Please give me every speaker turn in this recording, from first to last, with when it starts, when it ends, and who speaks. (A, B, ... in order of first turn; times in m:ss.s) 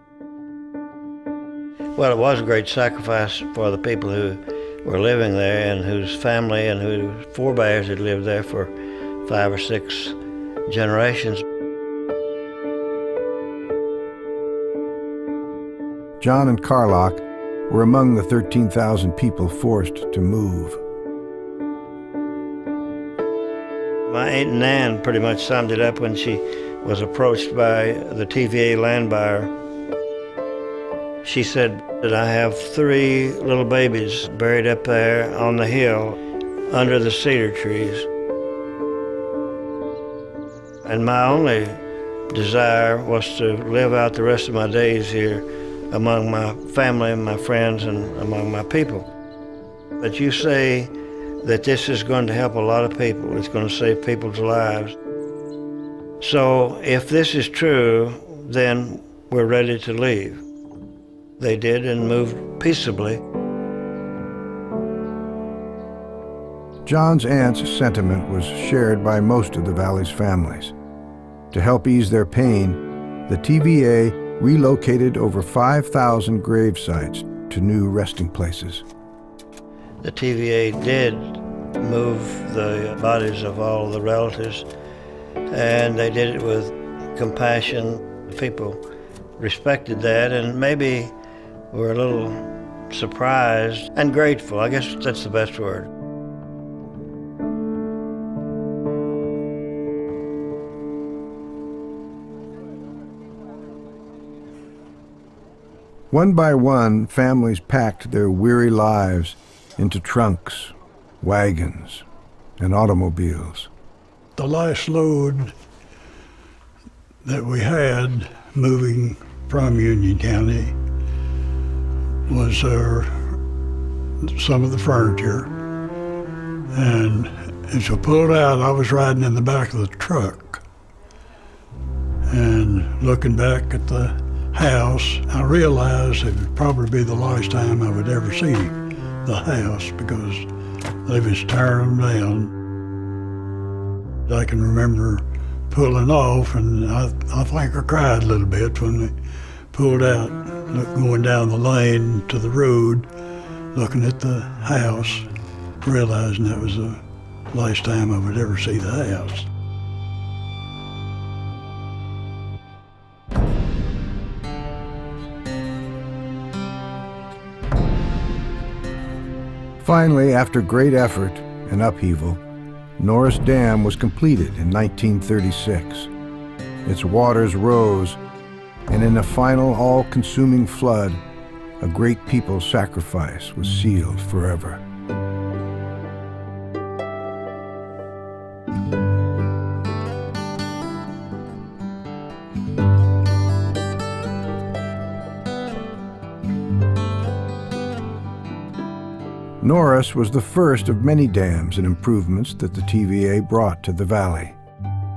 0:02.0-0:08.7 A
0:09.2-0:11.4 A
0:16.2-0:20.8 B
0:24.1-0:29.5 A
0:31.2-0:38.1 A
0:40.8-0:41.8 A
0:42.3-0:49.1 A
0:50.0-0:54.9 A
0:56.2-1:00.4 A
1:01.4-1:03.2 A
1:06.8-1:10.7 B
1:11.5-1:18.8 B
1:20.0-1:24.7 A
1:25.5-1:28.8 A
1:29.4-1:31.1 A
1:31.7-1:35.9 A
1:46.1-1:52.0 B
1:52.6-1:53.7 B
1:54.4-1:55.5 C
1:57.2-2:00.8 C
2:02.3-2:03.4 C
2:04.2-2:05.5 C
2:06.7-2:10.6 C
2:12.3-2:20.5 C
2:21.0-2:22.5 C
2:24.3-2:29.2 C
2:29.7-2:33.1 C
2:33.7-2:35.3 C
2:35.8-2:39.5 C
2:49.8-2:52.4 B
2:53.0-2:56.1 B
2:56.8-2:58.2 B
2:58.9-3:01.2 B
3:01.8-3:04.8 B
3:19.6-3:24.6 B